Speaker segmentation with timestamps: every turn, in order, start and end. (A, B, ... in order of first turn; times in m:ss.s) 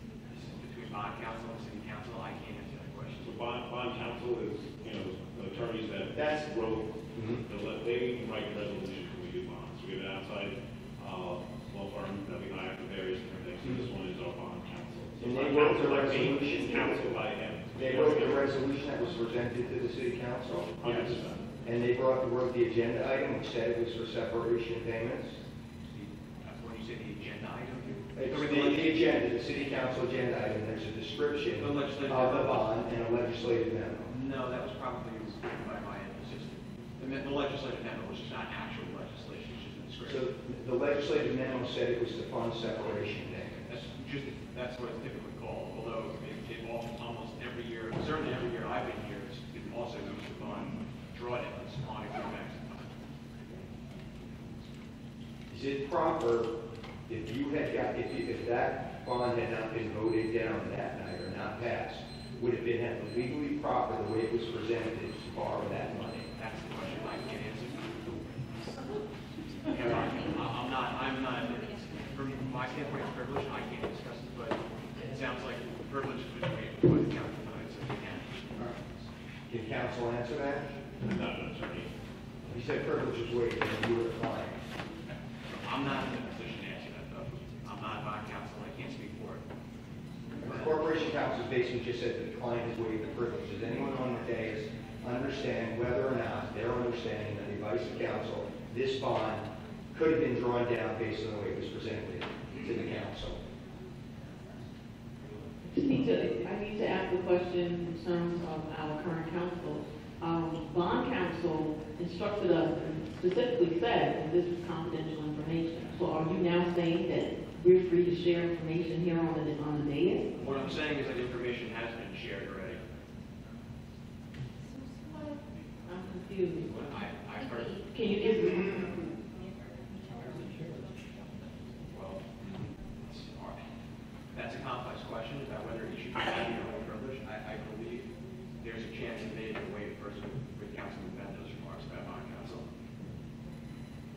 0:00.3-0:03.3 A
0:03.2-0:18.5 B
0:07.2-0:07.4 C
0:15.2-0:17.0 C
0:17.8-0:21.0 C
0:20.8-0:21.5 B
0:20.8-0:21.1 A
0:21.6-0:25.4 C
0:25.9-0:28.9 A
0:28.2-0:34.1 C
0:31.6-0:32.7 A
0:34.1-0:40.2 A
0:40.1-0:43.7 C
0:43.7-0:52.9 A
0:55.5-0:56.5 C
0:57.1-1:06.3 C
1:06.4-1:07.8 A
1:09.7-1:18.3 A
1:19.5-1:20.7 C
1:21.0-1:21.9 B
1:22.5-1:24.6 C
1:25.6-1:29.4 A
1:30.4-1:43.4 C
1:30.4-1:30.8 A
1:45.7-2:00.3 D
2:00.4-2:02.8 A
2:05.9-2:06.7 D
2:06.7-2:09.1 A
2:07.9-2:08.8 D
2:11.9-2:13.6 A
2:14.3-2:18.1 A
2:18.6-2:22.6 A